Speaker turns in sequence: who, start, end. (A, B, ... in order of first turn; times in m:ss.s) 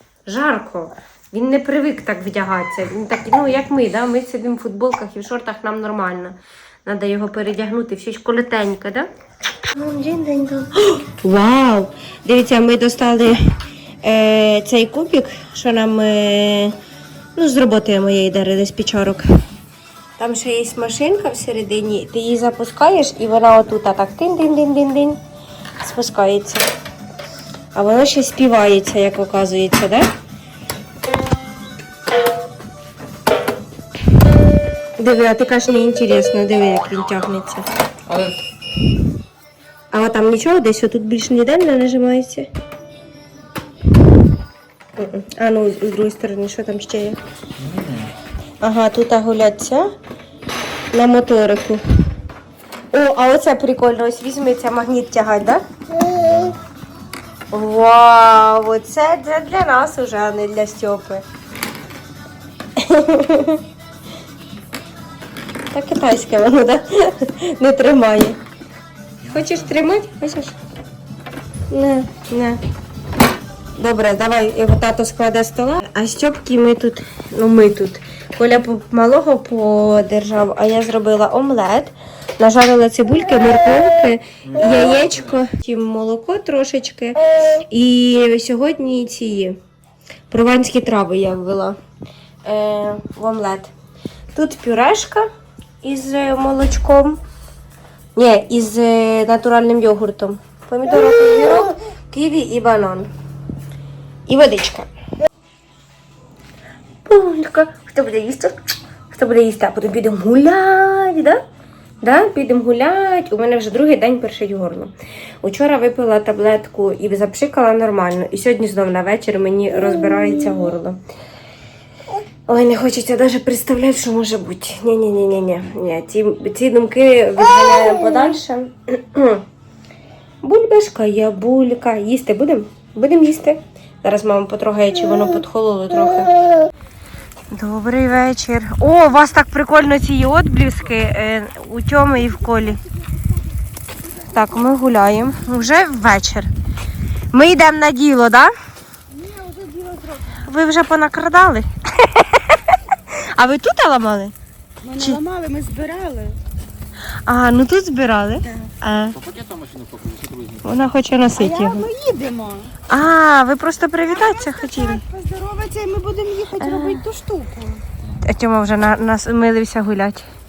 0:00.2-0:09.1 A
0:09.7-0:13.4 A
0:14.0-0:16.8 A
0:17.3-0:19.3 A
0:20.2-0:25.2 A
0:25.8-0:26.7 A
0:27.7-0:30.1 A
0:35.0-0:37.6 A
0:38.1-0:38.4 B
0:39.9-0:42.5 A
0:45.0-0:47.2 A
0:47.6-0:48.1 B
0:48.6-0:49.9 A
0:50.9-0:51.8 A
0:52.9-0:55.6 A
0:57.5-1:01.2 A
1:02.8-1:03.6 A
1:05.7-1:08.4 A
1:09.2-1:10.6 A
1:11.7-1:12.6 A
1:13.8-1:29.6 A
1:30.3-1:31.8 A
1:32.4-1:33.7 A
1:34.3-1:35.3 A
1:35.8-1:37.2 A
1:38.2-1:43.1 A
1:44.3-1:44.9 A
1:47.0-1:51.4 A
1:52.0-2:01.0 A
2:02.5-2:09.4 A
2:10.4-2:16.3 A
2:17.5-2:22.8 A
2:22.9-2:23.3 C
2:24.1-2:26.5 A
2:27.3-2:28.5 A
2:29.1-2:30.4 C
2:30.4-2:34.3 A
2:34.8-2:36.4 C
2:37.2-2:39.2 A
2:39.2-2:40.7 B
2:40.6-2:41.9 A
2:41.4-2:42.8 C
2:42.9-2:45.1 A
2:44.1-2:47.8 C
2:46.6-2:47.1 A
2:48.1-2:50.3 A